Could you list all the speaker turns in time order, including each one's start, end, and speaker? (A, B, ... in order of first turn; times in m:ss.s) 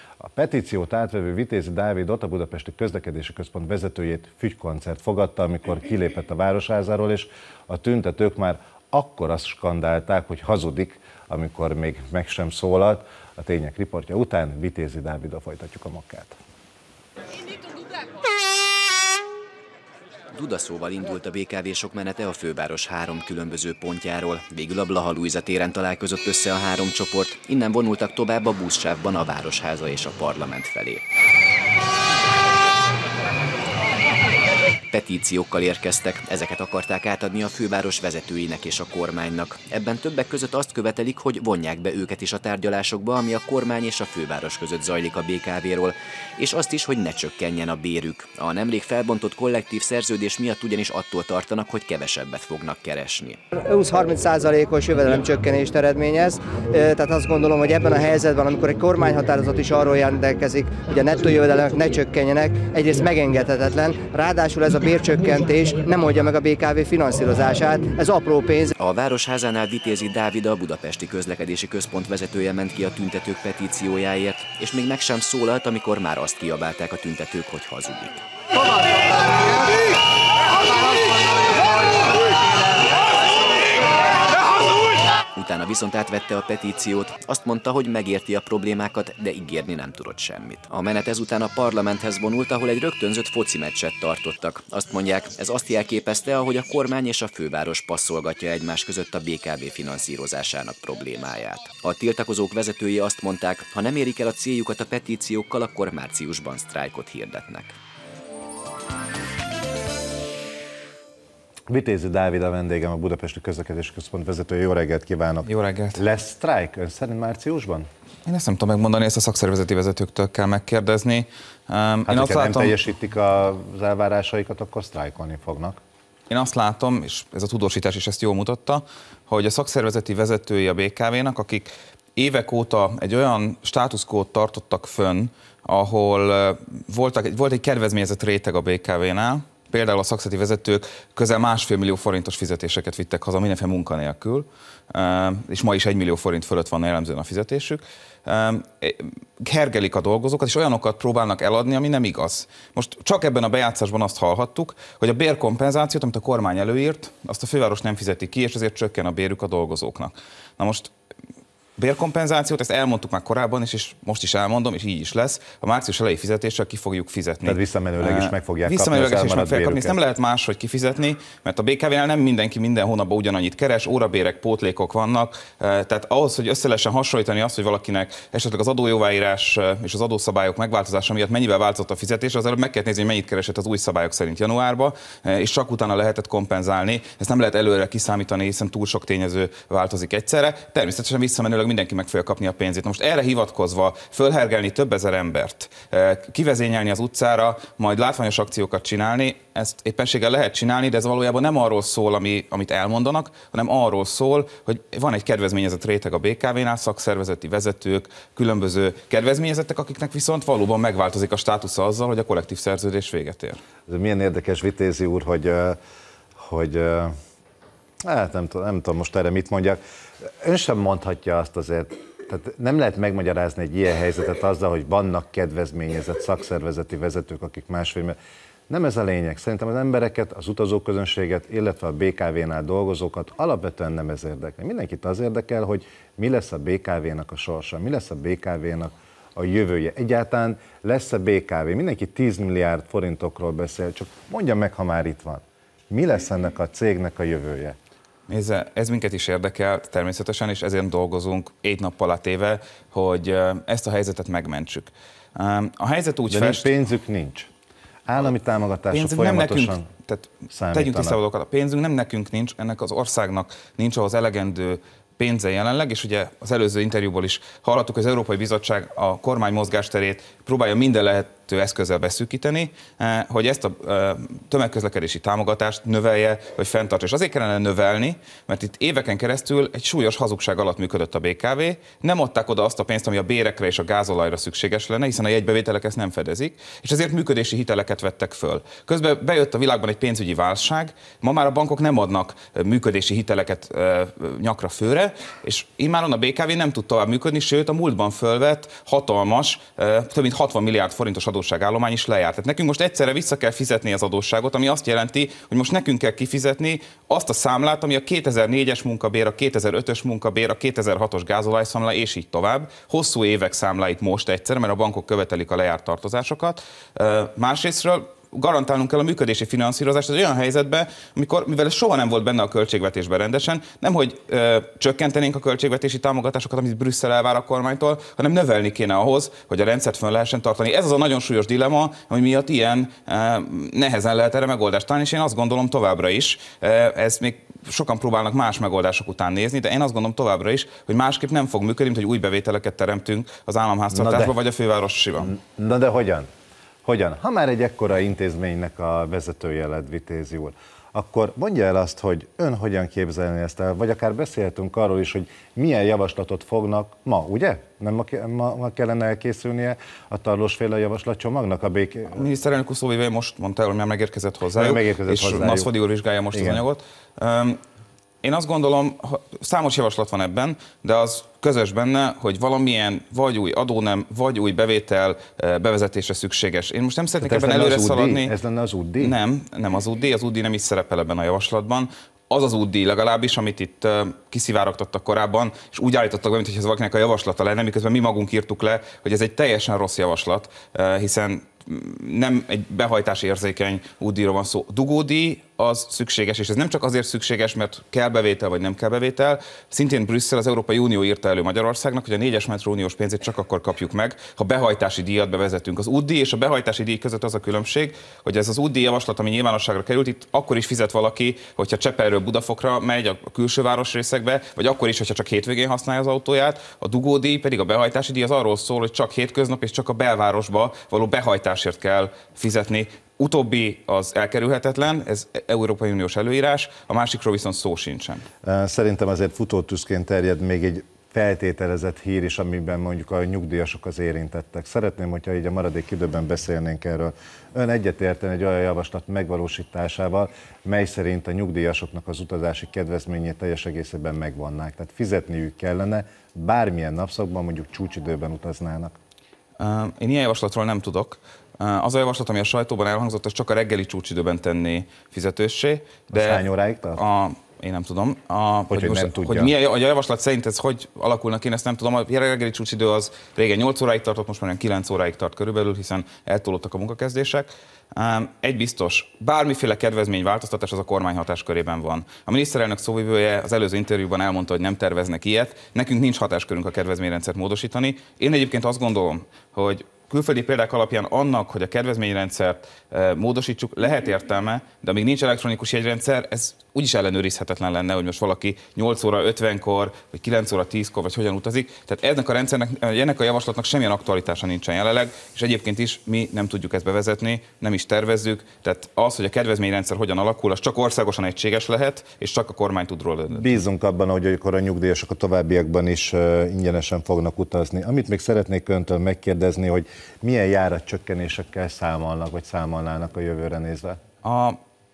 0:00.2-0:16.4 A
0:20.3-0:31.0 B
0:34.9-0:53.4 B
0:53.5-1:08.7 C
1:08.8-1:18.2 B
1:25.3-1:47.8 B
1:51.7-1:57.9 A
1:55.4-1:56.0 D
1:58.2-2:02.8 D
2:02.0-2:05.8 A
2:06.3-2:40.9 D
2:41.8-3:33.6 D
2:47.4-2:50.0 A
3:33.9-3:35.8 A
3:36.4-3:37.1 A
3:38.0-3:39.8 A
3:40.4-3:48.1 A
3:48.7-4:07.7 A
4:08.3-4:16.7 D
4:16.3-4:17.5 A
4:18.0-4:19.8 A
4:18.9-5:45.3 D
4:20.5-4:21.2 A
5:43.9-5:44.3 A
5:45.2-5:46.2 A
5:46.8-6:02.2 A
6:02.2-6:07.6 D
6:04.5-6:05.7 A
6:06.3-6:06.6 A
6:08.2-6:18.3 D
6:17.2-6:19.2 A
6:19.0-7:08.2 D
7:08.4-7:28.9 A
7:29.6-8:23.6 D
7:36.1-7:37.0 A
7:38.7-7:39.5 A
8:23.3-8:34.0 A
8:34.2-8:34.6 D